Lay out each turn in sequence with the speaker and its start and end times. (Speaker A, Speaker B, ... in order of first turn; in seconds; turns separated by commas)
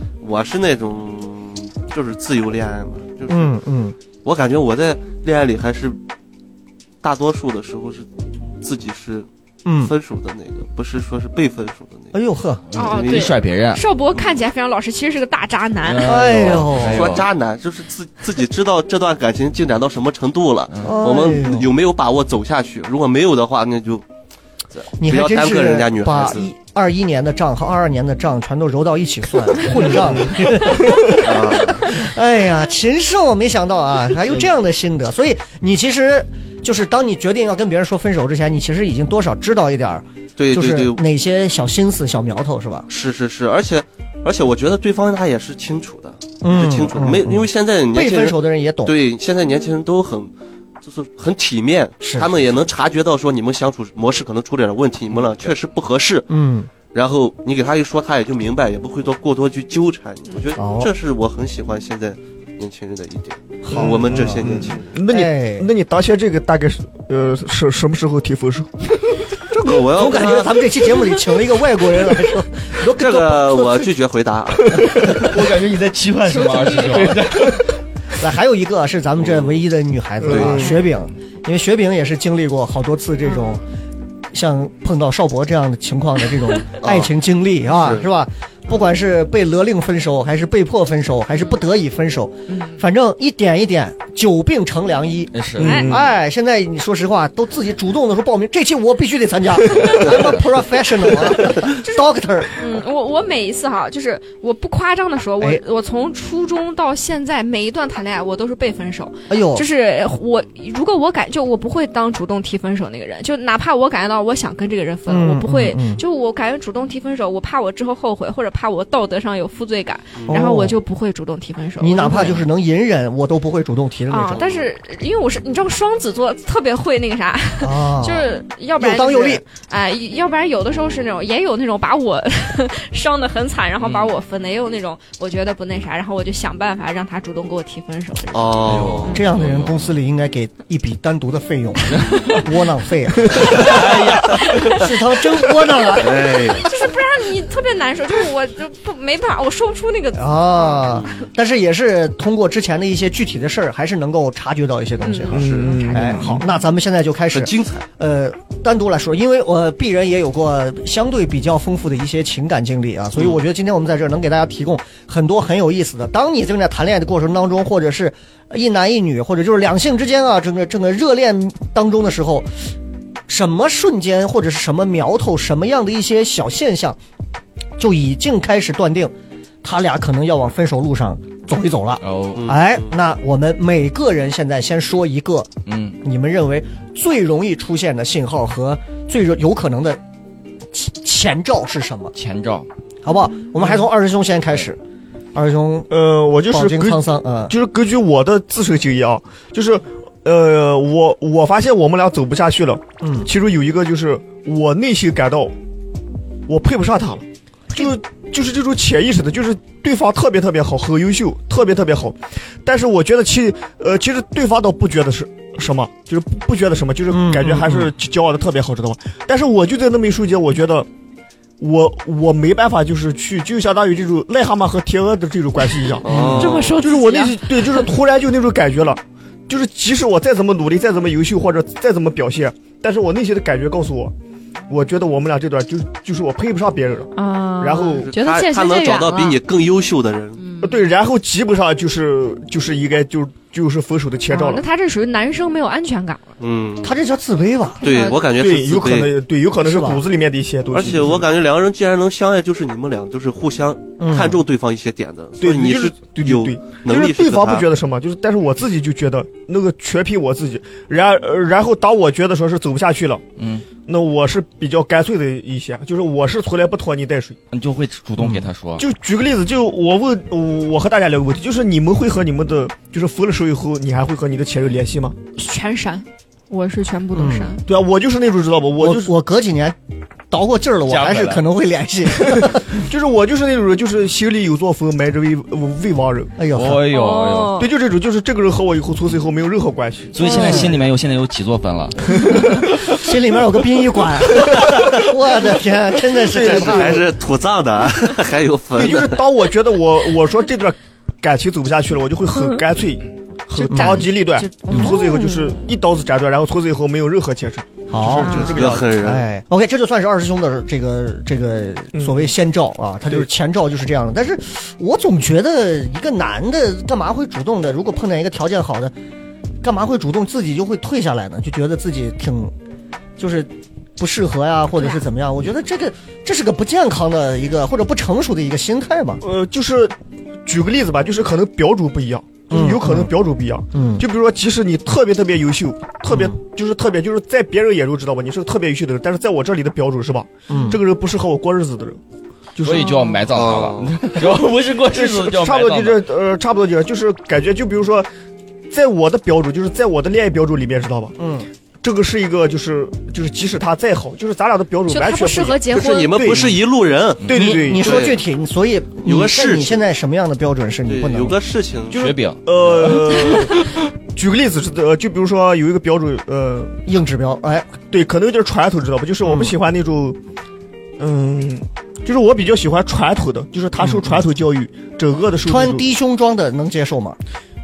Speaker A: 0.2-3.5, Speaker B: 3.3-3.9, Speaker A: 4.2-6.0, Speaker A: 7.0-8.1, Speaker A: 8.6-9.3, Speaker B: 9.6-9.9, Speaker A: 9.8-12.1, Speaker B: 12.1-12.6, Speaker C: 12.7-13.8, Speaker D: 12.7-16.2, Speaker A: 12.8-13.2, Speaker C: 15.8-17.2, Speaker B: 16.0-17.1, Speaker A: 16.6-24.0, Speaker C: 20.7-20.9, Speaker B: 20.8-21.7, Speaker A: 24.7-26.5, Speaker B: 25.0-42.9, Speaker A: 29.9-32.0, Speaker A: 40.4-41.0, Speaker A: 42.9-56.3, Speaker B: 46.4-49.0, Speaker B: 52.0-52.3, Speaker B: 56.3-56.7, Speaker A: 56.9-65.0, Speaker B: 60.5-60.9, Speaker B: 63.6-64.5, Speaker E: 63.7-68.9, Speaker B: 65.1-65.7, Speaker B: 69.5-73.9, Speaker A: 69.6-70.8, Speaker A: 72.8-75.3, Speaker C: 75.2-77.6, Speaker D: 76.3-77.2, Speaker B: 78.1-83.6, Speaker A: 79.2-79.6, Speaker E: 80.2-80.7, Speaker A: 80.2-80.7, Speaker D: 83.3-83.6, Speaker B: 84.3-102.6, Speaker A: 86.8-87.1, Speaker A: 87.8-88.0, Speaker D: 92.5-92.8, Speaker C: 95.3-95.8, Speaker E: 95.6-96.1, Speaker D: 95.6-96.0, Speaker D: 101.5-122.4, Speaker B: 109.3-109.7, Speaker B: 115.1-116.0, Speaker B: 120.3-120.8, Speaker B: 121.8-124.7, Speaker D: 124.1-139.3, Speaker B: 127.6-129.4, Speaker C: 133.8-134.1, Speaker A: 138.3-139.2, Speaker C: 138.7-139.9, Speaker B: 139.1-143.8, Speaker C: 141.9-142.4, Speaker C: 143.3-144.4, Speaker D: 144.6-144.8, Speaker B: 144.7-146.3, Speaker A: 145.9-146.7, Speaker D: 146.6-151.0, Speaker B: 150.1-172.5, Speaker D: 155.0-156.2, Speaker A: 155.3-155.8, Speaker E: 155.3-156.4, Speaker A: 157.3-157.8, Speaker B: 173.3-177.0, Speaker B: 177.8-185.5, Speaker C: 182.0-182.5, Speaker A: 182.3-182.9, Speaker C: 185.7-186.0, Speaker B: 186.0-190.0, Speaker B: 190.7-192.1, Speaker C: 192.1-192.7, Speaker B: 193.0-194.8, Speaker B: 195.3-195.9, Speaker E: 195.9-205.5, Speaker B: 196.5-197.5, Speaker B: 203.0-203.3, Speaker E: 206.5-220.9, Speaker B: 217.1-217.9, Speaker E: 221.6-234.1, Speaker A: 226.0-226.6, Speaker B: 226.1-226.5, Speaker D: 226.3-227.9, Speaker E: 234.7-238.1, Speaker D: 237.1-239.4, Speaker A: 238.0-240.4, Speaker D: 240.4-240.8, Speaker E: 240.6-244.6, Speaker D: 244.3-246.3, Speaker A: 246.4-247.0, Speaker B: 246.8-247.8, Speaker D: 247.8-248.2, Speaker A: 247.8-249.1, Speaker E: 248.3-251.2, Speaker B: 249.6-250.0, Speaker A: 250.7-257.7, Speaker B: 254.0-254.4, Speaker E: 255.4-263.2, Speaker C: 263.4-263.6, Speaker E: 263.8-267.4, Speaker C: 267.5-268.8, Speaker B: 268.2-268.4, Speaker E: 268.8-275.2, Speaker D: 275.4-277.6, Speaker B: 277.1-277.6, Speaker E: 277.6-279.1, Speaker B: 278.8-279.8, Speaker B: 280.3-282.7, Speaker C: 280.9-281.4, Speaker E: 282.2-286.3, Speaker B: 286.4-286.8, Speaker C: 286.5-287.6, Speaker D: 286.9-287.7, Speaker E: 287.6-290.5, Speaker C: 290.1-292.3, Speaker D: 290.2-290.7, Speaker B: 290.3-290.7, Speaker E: 292.2-292.9, Speaker B: 292.4-297.0, Speaker E: 294.3-295.0, Speaker E: 296.2-297.0, Speaker A: 296.3-299.2, Speaker E: 298.8-309.0, Speaker D: 302.3-302.6, Speaker D: 303.6-305.6, Speaker B: 303.7-304.1, Speaker B: 304.7-305.0, Speaker B: 307.9-318.9, Speaker D: 308.2-308.6, Speaker A: 308.3-309.2, Speaker E: 311.9-312.3, Speaker B: 319.6-322.5, Speaker B: 323.2-329.2, Speaker E: 329.2-329.9, Speaker E: 330.4-342.0, Speaker B: 332.5-333.1, Speaker B: 333.7-334.1, Speaker B: 336.1-336.4, Speaker B: 340.5-340.8, Speaker E: 342.6-342.9, Speaker C: 342.6-346.0, Speaker D: 342.8-343.2, Speaker A: 343.3-344.1, Speaker E: 344.9-348.1, Speaker E: 348.7-351.1, Speaker B: 351.2-351.5, Speaker E: 351.8-356.6, Speaker D: 354.9-356.2, Speaker A: 355.7-358.2, Speaker E: 357.2-358.0, Speaker B: 357.3-361.4, Speaker A: 359.0-359.9, Speaker A: 360.9-362.1, Speaker C: 361.9-363.8, Speaker E: 361.9-366.8, Speaker B: 366.8-367.8, Speaker E: 367.9-370.2, Speaker B: 369.2-369.6, Speaker E: 371.0-375.8, Speaker B: 373.8-374.2, Speaker B: 375.4-377.2